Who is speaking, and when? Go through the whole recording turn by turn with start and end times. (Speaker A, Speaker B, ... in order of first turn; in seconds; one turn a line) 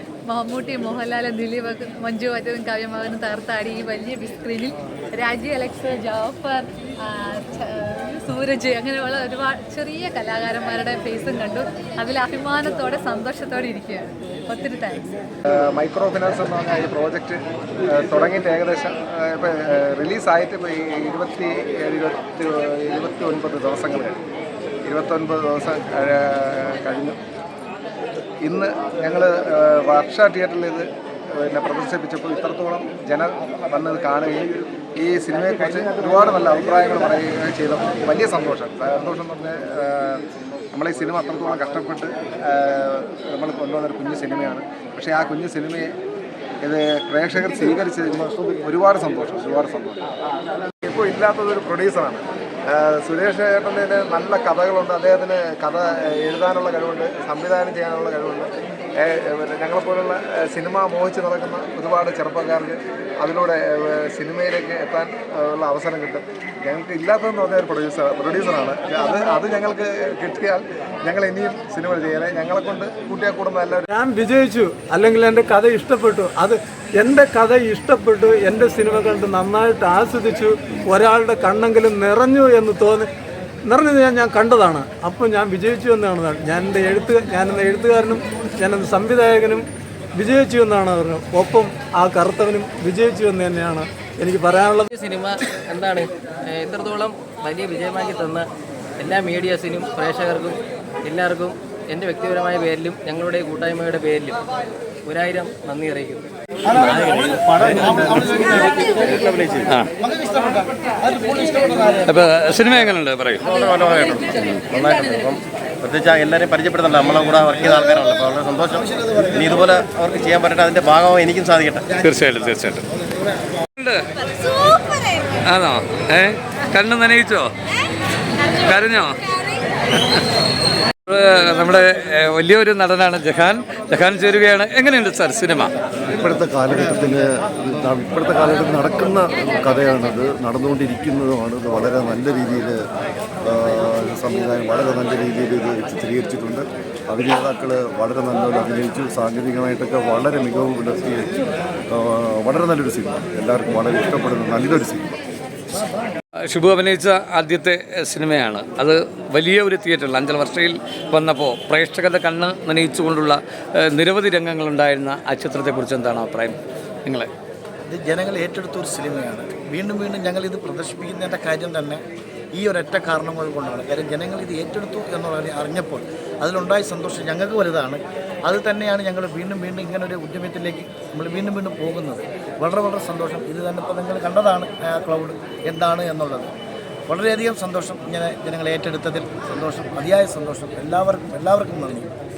Speaker A: 0.3-15.1
Speaker B: 15.5-17.4
Speaker B: 17.9-24.2
Speaker B: 24.8-27.2
Speaker B: 28.4-30.9
Speaker B: 31.4-40.2
Speaker B: 40.7-45.9
Speaker B: 46.6-50.0
Speaker B: 50.8-58.5
Speaker B: 59.0-73.9
Speaker C: 73.9-83.1
Speaker C: 83.7-89.6
Speaker C: 90.2-94.9
Speaker D: 94.9-98.5
Speaker D: 99.0-104.4
Speaker D: 105.0-106.2
Speaker D: 106.9-108.5
Speaker E: 107.6-109.7
Speaker F: 112.1-113.4
Speaker E: 113.4-121.8
Speaker F: 122.0-122.8
Speaker F: 123.8-124.0
Speaker F: 125.5-127.5
Speaker F: 128.6-129.1
Speaker F: 130.0-130.2
Speaker F: 131.1-135.7
Speaker G: 136.2-142.8
Speaker G: 143.4-151.3
Speaker G: 151.9-155.1
Speaker F: 156.5-167.3
Speaker H: 167.9-172.0
Speaker H: 172.5-186.5
Speaker H: 187.1-192.1